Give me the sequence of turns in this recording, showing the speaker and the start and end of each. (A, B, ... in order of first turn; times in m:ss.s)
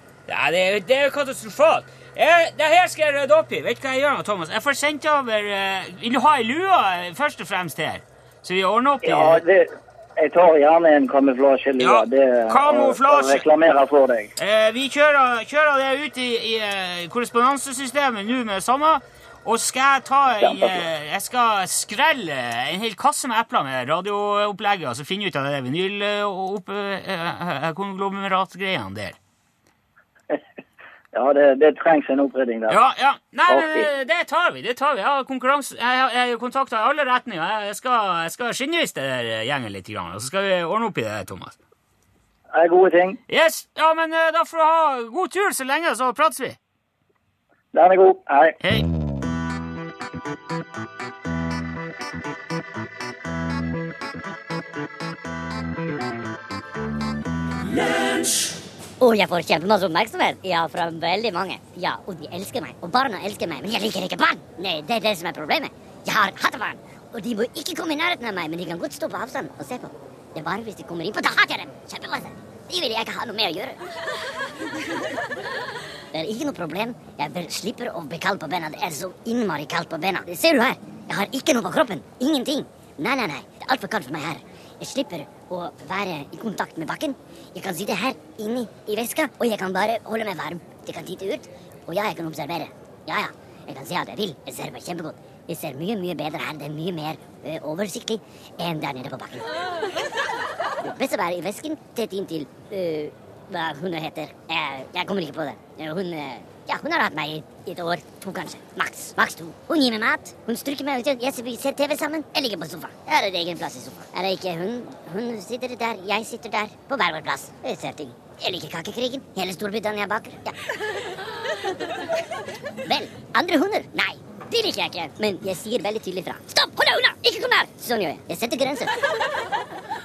0:00.3-0:09.4 A
0:09.0-0:14.3 B
0:11.8-0:13.4 A
0:14.4-0:29.2 A
0:20.4-0:20.8 B
0:31.1-0:32.8 B
0:32.7-0:41.6 A
0:33.5-0:33.9 B
0:42.5-0:43.2 B
0:43.3-0:46.6 A
0:47.7-0:48.6 B
0:48.6-0:48.8 A
0:59.0-1:13.8 C
1:16.1-1:39.5 C
1:40.8-2:00.6 C
2:02.8-2:08.9 C